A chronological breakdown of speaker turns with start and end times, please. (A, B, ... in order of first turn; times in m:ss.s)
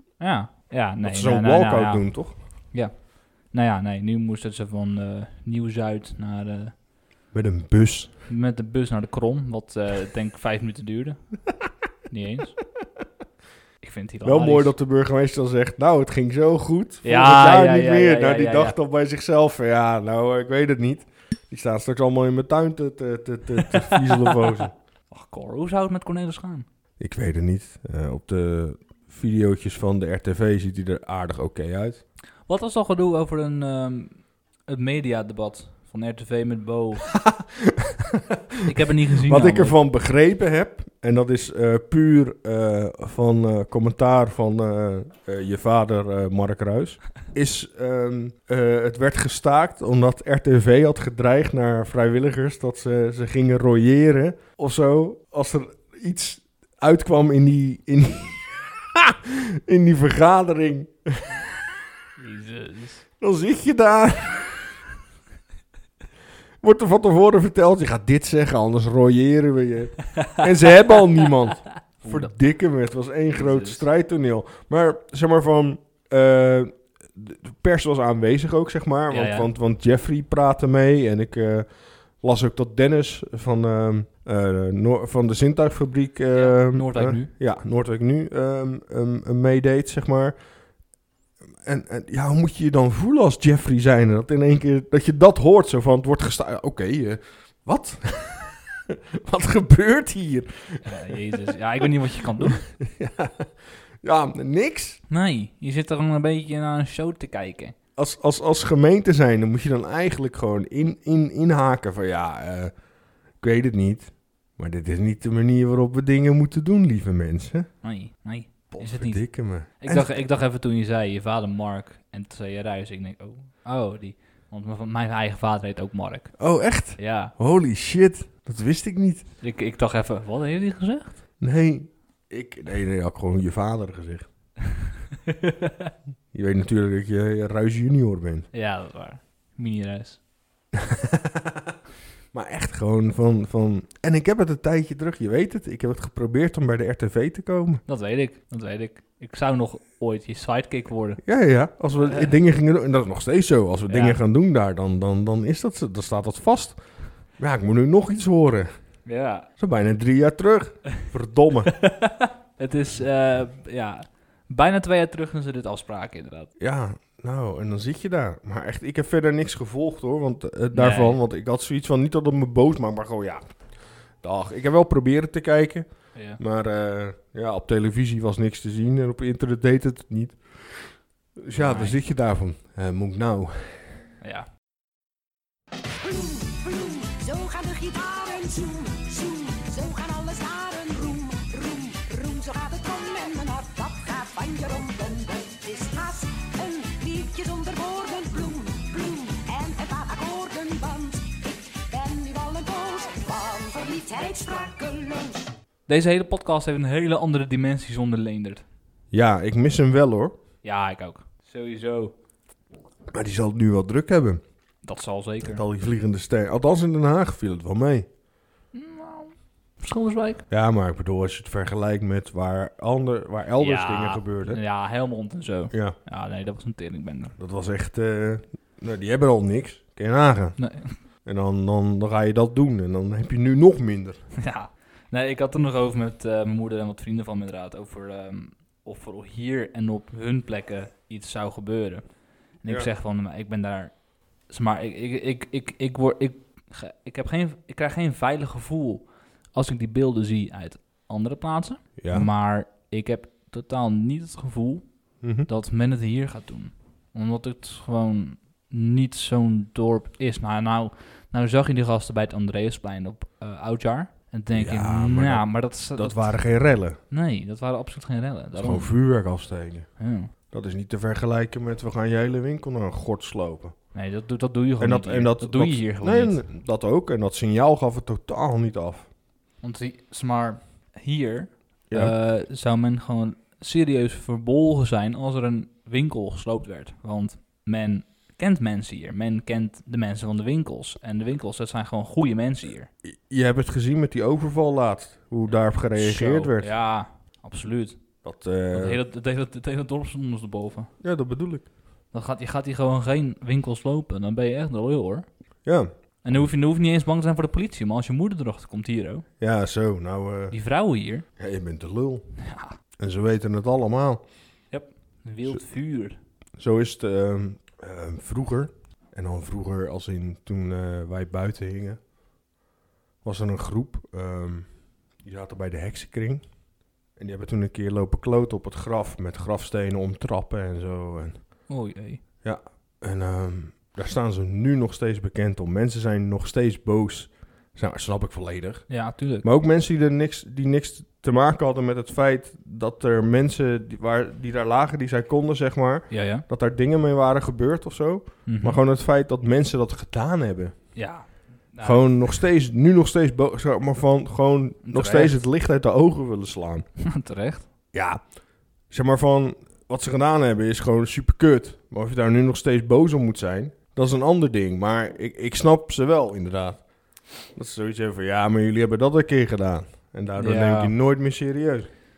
0:00.2-0:06.8 A
0:01.0-0:02.4 B
0:07.3-0:08.2 B
0:08.3-0:11.5 A
0:12.1-0:12.6 A
0:13.8-0:14.7 A
0:14.2-0:24.7 B
0:17.0-0:18.8 A
0:25.1-0:26.6 A
0:27.0-0:32.0 B
0:32.4-0:37.2 A
0:37.2-0:37.9 B
0:38.6-0:39.8 A
0:39.2-1:01.5 B
1:02.2-1:03.0 A
1:03.2-1:04.7 B
1:06.6-1:30.4 B
1:12.0-1:12.3 A
1:13.3-1:13.8 A
1:19.1-1:19.5 A
1:26.3-1:27.3 A
1:31.6-1:38.6 B
1:39.2-1:41.4 B
1:40.8-1:42.6 A
1:42.4-1:43.5 B
1:44.0-1:45.0 B
1:45.1-1:47.7 A
1:48.0-1:52.7 B
1:53.4-1:57.7 B
1:57.8-2:07.3 A
1:58.7-2:00.2 B
2:06.4-2:09.3 B
2:09.4-2:11.2 A
2:11.4-2:14.3 B
2:15.2-2:15.9 A
2:16.3-2:18.5 B
2:18.5-2:20.2 A
2:20.9-2:21.4 B
2:22.3-2:27.8 B
2:27.8-2:31.2 A
2:31.2-2:38.7 B
2:32.0-2:32.3 A
2:33.9-2:34.2 A
2:39.0-2:39.5 A
2:39.6-2:41.7 B
2:41.7-2:46.5 A
2:46.6-2:53.5 B
2:50.7-2:51.2 A
2:54.2-3:04.0 B
2:56.1-2:56.4 A
3:01.5-3:02.0 A
3:04.2-3:04.5 A
3:06.0-3:25.5 C
3:25.9-3:28.6 A
3:29.1-3:30.4 B
3:30.6-3:32.1 A
3:33.1-3:34.4 B
3:34.8-3:35.6 A
3:35.4-3:38.1 B
3:38.7-3:40.4 A
3:40.5-3:44.6 B
3:43.6-3:47.3 A
3:47.4-3:50.6 B
3:50.6-3:51.0 A
3:51.2-3:54.2 B
3:54.4-4:26.3 A
4:12.0-4:12.3 B
4:15.2-4:15.5 B
4:24.5-4:27.0 B
4:27.1-4:29.0 A
4:28.5-4:29.9 B
4:30.0-4:30.3 A
4:30.5-4:33.8 B
4:33.9-4:36.4 A
4:34.8-4:39.1 B
4:39.6-4:52.9 A
4:41.9-4:42.1 B
4:53.0-4:56.7 B
4:55.7-5:00.9 A
4:58.2-4:59.0 B
5:01.0-5:01.7 B
5:02.1-5:05.3 A
5:05.6-5:06.5 B
5:06.2-5:09.3 A
5:09.4-5:10.6 B
5:10.5-5:11.3 A
5:11.4-5:12.3 B
5:12.4-5:12.8 A
5:13.0-5:14.2 B
5:14.7-5:16.2 A
5:16.6-5:22.0 B
5:23.2-5:26.5 B
5:27.1-5:31.7 B
5:31.7-5:32.2 A
5:32.4-5:51.1 B
5:38.9-5:39.4 A
5:46.1-5:46.4 A
5:48.4-5:48.8 A
5:50.9-5:52.3 A
5:51.8-5:56.9 B
5:54.8-5:55.4 A
5:57.0-5:57.7 A
5:57.9-6:11.9 B
6:10.4-6:10.9 A